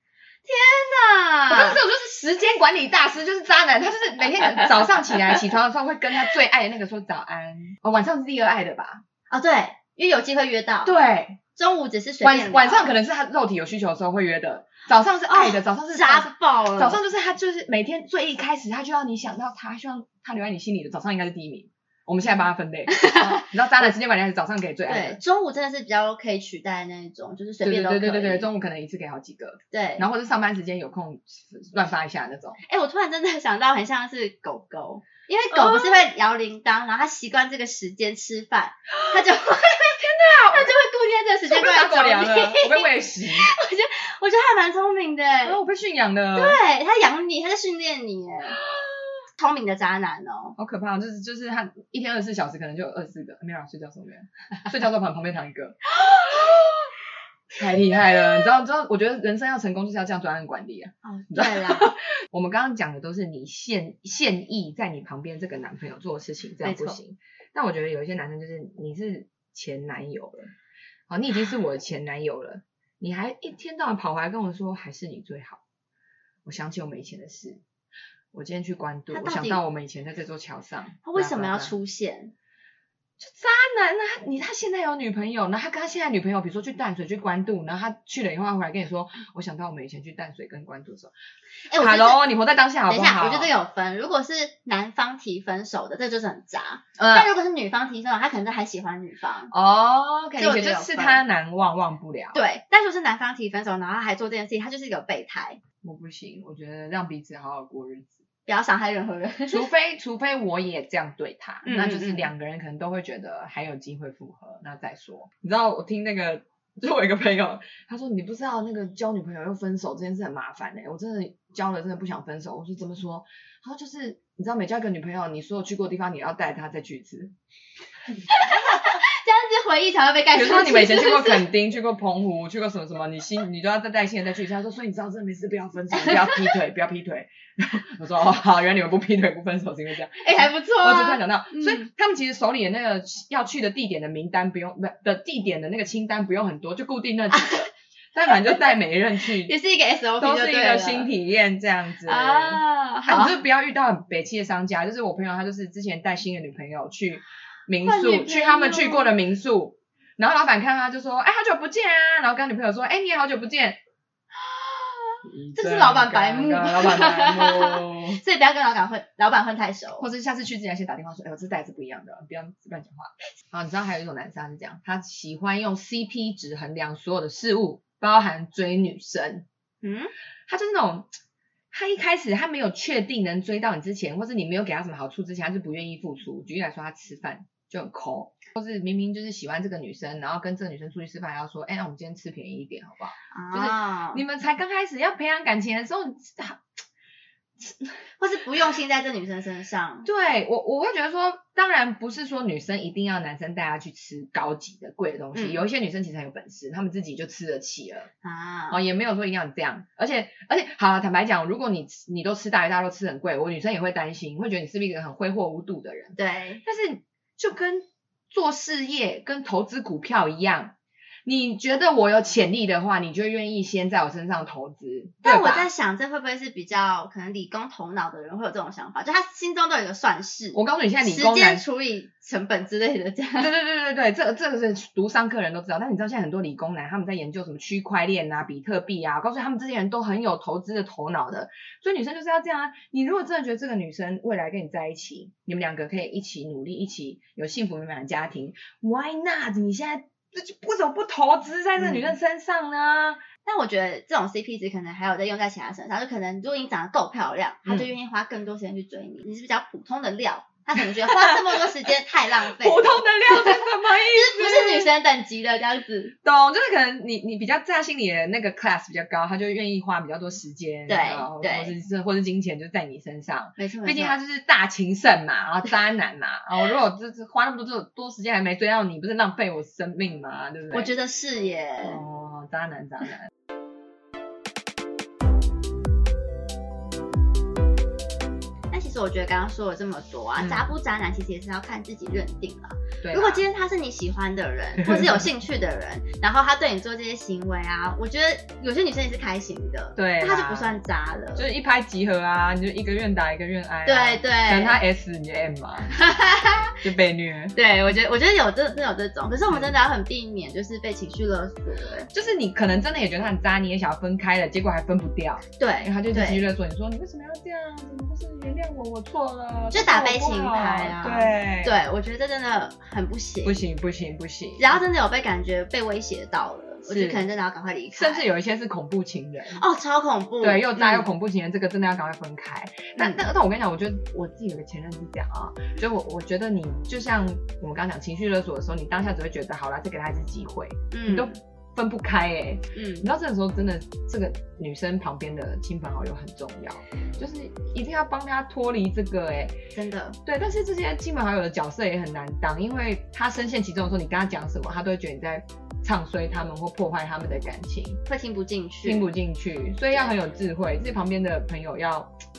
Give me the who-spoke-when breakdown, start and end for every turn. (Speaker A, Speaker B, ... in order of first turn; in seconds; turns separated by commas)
Speaker A: 0.5-1.8, Speaker B: 1.5-9.0, Speaker A: 9.3-10.9, Speaker B: 10.8-11.4, Speaker A: 11.6-12.9, Speaker B: 12.2-25.2, Speaker A: 15.3-17.0, Speaker A: 22.9-23.5, Speaker A: 24.9-28.5, Speaker B: 27.6-32.6, Speaker A: 29.7-30.1, Speaker A: 32.6-45.6, Speaker B: 35.5-36.1, Speaker B: 38.9-40.8, Speaker B: 41.5-43.5, Speaker B: 45.4-46.6, Speaker A: 46.4-48.6, Speaker B: 48.6-49.1, Speaker A: 49.4-50.5, Speaker B: 50.6-56.6, Speaker B: 57.5-70.5, Speaker A: 61.0-61.9, Speaker A: 66.6-67.0, Speaker B: 71.1-75.6, Speaker B: 76.5-77.6, Speaker B: 78.3-81.7, Speaker A: 79.1-79.6, Speaker A: 81.0-82.3, Speaker B: 83.2-91.1, Speaker A: 91.7-92.2, Speaker B: 91.8-93.5, Speaker A: 92.9-99.5, Speaker B: 97.0-97.3, Speaker B: 99.5-102.4, Speaker A: 100.4-101.2, Speaker A: 102.3-105.6, Speaker B: 105.8-108.2, Speaker A: 108.5-109.7, Speaker B: 109.5-127.3, Speaker A: 111.6-112.3, Speaker A: 128.3-131.5, Speaker B: 128.5-128.8, Speaker B: 130.3-149.6, Speaker A: 135.9-136.4, Speaker A: 140.2-141.9, Speaker A: 147.3-147.7, Speaker A: 149.4-151.1, Speaker B: 150.2-163.8, Speaker A: 152.1-153.4, Speaker A: 157.8-159.1, Speaker A: 164.3-170.1, Speaker B: 165.2-168.2, Speaker B: 170.0-179.4, Speaker A: 179.8-180.1, Speaker B: 180.5-181.1, Speaker B: 181.7-196.6, Speaker A: 193.3-194.2, Speaker B: 197.6-198.0, Speaker A: 198.2-200.1, Speaker B: 200.1-208.1, Speaker A: 205.3-205.6, Speaker A: 208.2-208.8, Speaker B: 208.7-220.7, Speaker A: 216.2-216.6, Speaker B: 221.2-225.7, Speaker A: 225.2-233.5, Speaker B: 230.5-231.6, Speaker B: 233.4-253.2, Speaker A: 251.8-252.1, Speaker A: 253.4-266.1, Speaker B: 257.7-257.9, Speaker B: 260.8-261.7, Speaker B: 262.4-264.9, Speaker B: 266.2-280.9, Speaker A: 270.9-271.7, Speaker A: 273.6-274.2, Speaker A: 280.7-282.0, Speaker B: 281.8-283.3, Speaker A: 288.7-301.5, Speaker B: 290.4-290.7, Speaker B: 293.0-293.4, Speaker B: 294.8-295.3, Speaker B: 300.0-300.8, Speaker B: 301.4-306.0, Speaker A: 303.9-304.8, Speaker A: 305.9-306.8, Speaker B: 306.8-307.6, Speaker A: 307.6-312.1, Speaker B: 309.5-309.8, Speaker B: 312.1-321.8, Speaker A: 315.6-316.4, Speaker A: 319.7-323.7, Speaker B: 323.4-324.8, Speaker A: 324.6-328.3, Speaker B: 326.9-327.2, Speaker B: 327.9-329.6, Speaker A: 329.6-331.1, Speaker B: 330.4-349.6, Speaker A: 333.0-333.2, Speaker A: 340.9-341.4, Speaker A: 342.8-343.1, Speaker A: 349.7-350.2, Speaker B: 350.3-358.0, Speaker A: 358.1-359.1, Speaker B: 358.8-362.1